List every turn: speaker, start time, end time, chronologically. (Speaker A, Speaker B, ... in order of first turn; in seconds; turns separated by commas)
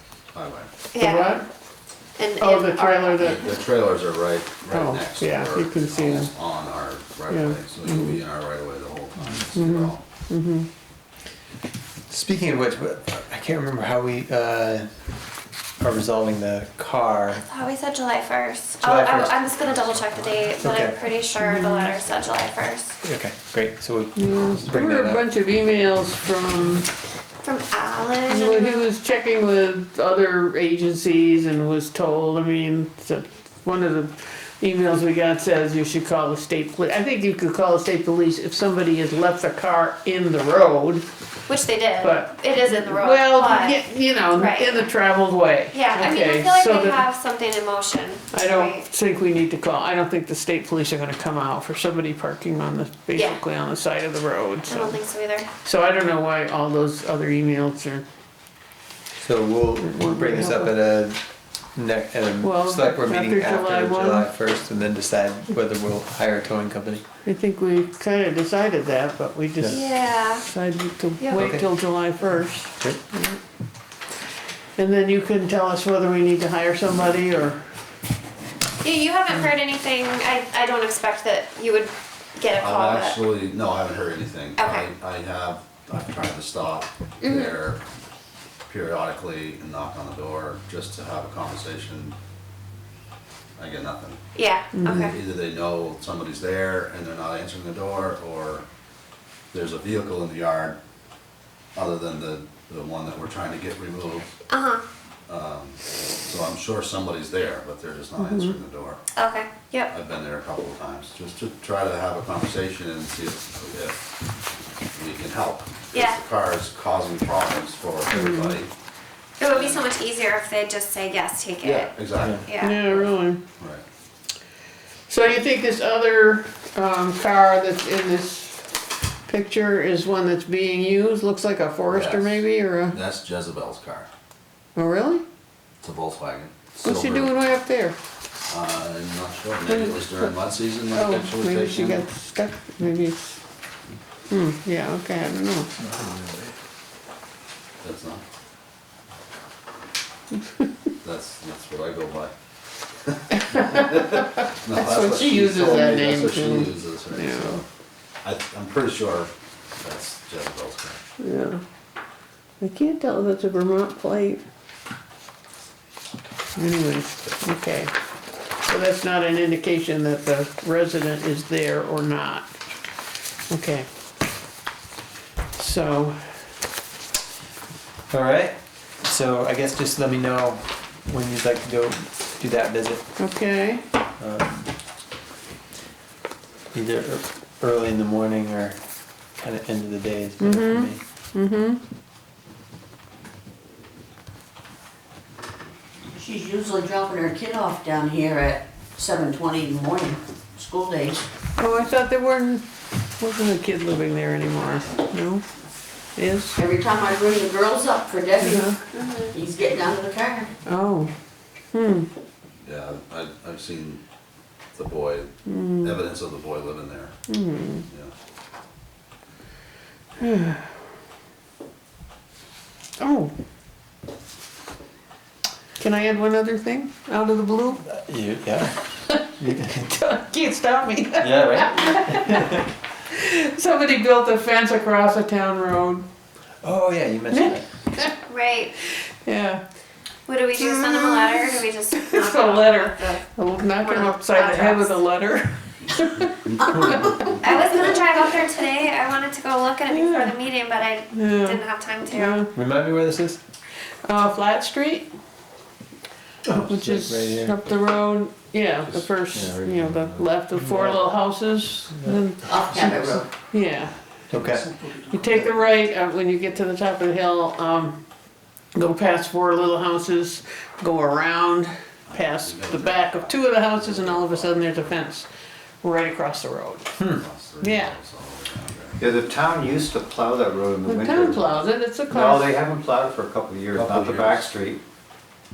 Speaker A: 0.3-0.7, Speaker B: 0.9-1.4, Speaker C: 0.9-1.4, Speaker B: 2.2-3.4, Speaker C: 2.4-3.5, Speaker A: 3.2-10.0, Speaker C: 4.7-6.3, Speaker C: 7.3-8.2, Speaker C: 9.5-10.7, Speaker D: 12.1-14.9, Speaker D: 15.8-17.4, Speaker B: 17.3-22.9, Speaker D: 18.8-19.4, Speaker D: 20.6-21.0, Speaker C: 21.4-21.9, Speaker D: 23.0-25.2, Speaker C: 24.1-26.9, Speaker B: 27.4-28.8, Speaker C: 28.3-41.0, Speaker B: 41.5-43.8, Speaker C: 42.0-47.1, Speaker B: 44.3-44.9, Speaker B: 45.7-48.9, Speaker C: 48.3-55.0, Speaker B: 53.1-53.4, Speaker B: 54.7-55.5, Speaker C: 55.5-58.0, Speaker D: 59.2-61.2, Speaker C: 59.8-60.7, Speaker D: 61.7-67.0, Speaker C: 62.4-64.3, Speaker C: 67.2-73.4, Speaker B: 69.7-70.4, Speaker D: 71.3-71.7, Speaker C: 74.8-77.6, Speaker B: 78.8-83.2, Speaker A: 82.6-87.8, Speaker B: 84.6-84.9, Speaker B: 87.2-87.5, Speaker A: 88.7-92.2, Speaker A: 93.6-94.2, Speaker B: 94.3-95.1, Speaker C: 94.7-95.1, Speaker A: 94.8-98.7, Speaker A: 99.5-100.8, Speaker A: 101.7-104.3, Speaker B: 104.5-104.8, Speaker A: 105.3-109.0, Speaker C: 108.2-108.5, Speaker B: 109.1-109.9, Speaker A: 109.9-114.0, Speaker A: 114.9-118.7, Speaker B: 115.9-116.2, Speaker C: 118.1-118.6, Speaker B: 119.4-121.9, Speaker A: 119.5-119.8, Speaker A: 121.6-123.8, Speaker B: 122.4-122.8, Speaker C: 122.6-123.4, Speaker C: 125.1-128.6, Speaker C: 129.3-133.0, Speaker A: 131.9-134.1, Speaker C: 134.8-135.2, Speaker A: 135.8-137.3, Speaker C: 136.8-137.9, Speaker A: 138.5-142.1, Speaker C: 139.7-140.3, Speaker C: 140.9-143.4, Speaker C: 144.3-145.7, Speaker E: 146.0-146.3, Speaker A: 147.8-148.2, Speaker C: 150.4-150.7, Speaker A: 151.0-152.3, Speaker A: 153.1-157.6, Speaker C: 153.5-154.2, Speaker C: 154.7-157.6, Speaker A: 158.2-161.0, Speaker C: 161.2-161.6, Speaker C: 162.6-164.4, Speaker C: 166.6-167.9, Speaker C: 168.7-172.5, Speaker C: 173.5-173.9, Speaker C: 175.6-176.2, Speaker D: 178.1-183.0, Speaker C: 183.2-183.8, Speaker D: 184.2-184.7, Speaker D: 186.7-188.8, Speaker D: 189.4-191.0, Speaker C: 190.4-191.8, Speaker F: 196.1-201.2, Speaker C: 201.6-202.6, Speaker C: 203.2-205.4, Speaker C: 206.2-206.6, Speaker F: 206.6-208.7, Speaker C: 208.4-208.8, Speaker B: 208.9-209.3, Speaker F: 209.3-210.5, Speaker C: 210.7-211.1, Speaker C: 211.7-212.1, Speaker A: 212.6-214.0, Speaker A: 214.7-217.1, Speaker C: 215.5-216.0, Speaker C: 217.3-217.8, Speaker C: 220.2-220.7, Speaker C: 223.0-223.3, Speaker C: 225.8-227.8, Speaker D: 227.9-228.8, Speaker C: 228.9-236.0, Speaker D: 229.4-229.9, Speaker D: 231.2-232.6, Speaker D: 236.6-237.6, Speaker C: 237.3-238.1, Speaker B: 238.3-238.7, Speaker C: 239.0-239.6, Speaker B: 240.3-243.2, Speaker C: 240.5-247.9, Speaker B: 243.7-245.0, Speaker A: 246.4-247.1, Speaker B: 247.4-252.4, Speaker C: 249.9-250.3, Speaker C: 251.1-252.5, Speaker D: 252.5-253.4, Speaker C: 254.0-255.1, Speaker D: 256.4-257.6, Speaker C: 256.5-263.9, Speaker E: 259.3-260.2, Speaker D: 260.6-261.0, Speaker F: 262.5-263.3, Speaker D: 264.3-264.6, Speaker E: 264.4-264.9, Speaker C: 265.0-268.0, Speaker C: 268.7-275.3, Speaker A: 272.1-275.0, Speaker C: 275.8-276.9, Speaker A: 277.0-279.0, Speaker C: 277.6-277.9, Speaker E: 279.0-284.8, Speaker C: 280.9-282.6, Speaker A: 283.7-284.5